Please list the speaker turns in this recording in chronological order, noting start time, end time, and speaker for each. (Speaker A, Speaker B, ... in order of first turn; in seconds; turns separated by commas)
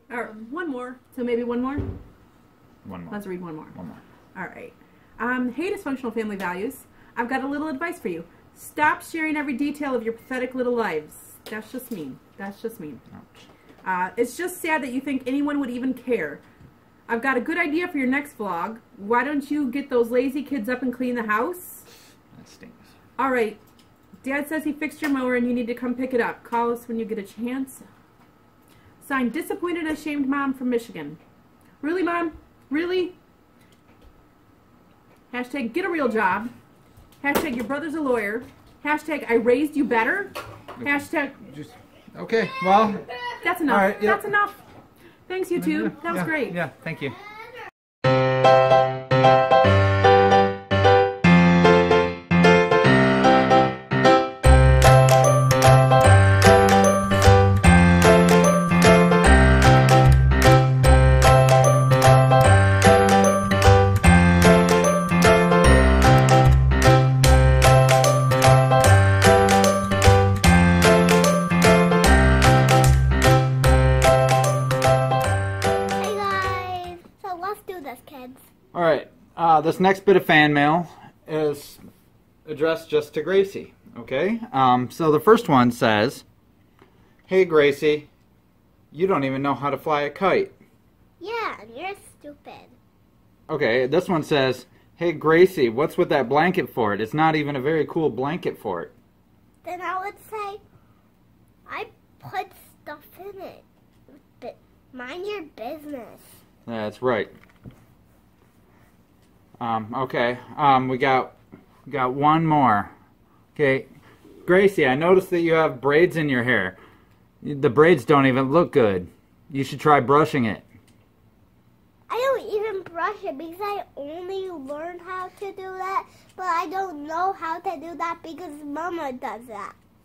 Speaker A: 0.1-1.9, Speaker B: 2.8-3.2, Speaker A: 3.1-3.7, Speaker B: 3.7-4.0, Speaker A: 4.3-13.0, Speaker B: 13.2-13.4, Speaker A: 13.8-16.4, Speaker A: 17.1-21.9, Speaker B: 22.3-22.9, Speaker A: 23.2-23.6, Speaker A: 24.2-27.9, Speaker A: 29.0-31.2, Speaker A: 31.8-33.2, Speaker A: 35.3-36.5, Speaker A: 37.2-41.5, Speaker B: 41.5-43.1, Speaker A: 43.4-44.6, Speaker B: 43.6-44.3, Speaker A: 45.3-46.6, Speaker B: 45.6-47.2, Speaker C: 76.0-78.4, Speaker B: 78.7-81.8, Speaker B: 82.5-86.2, Speaker B: 87.3-88.1, Speaker B: 88.9-90.5, Speaker C: 91.2-92.7, Speaker B: 93.5-98.9, Speaker C: 99.6-100.6, Speaker C: 101.7-106.3, Speaker B: 106.7-107.3, Speaker B: 109.6-112.9, Speaker B: 113.5-113.9, Speaker B: 114.4-116.8, Speaker B: 117.4-120.6, Speaker C: 122.1-129.7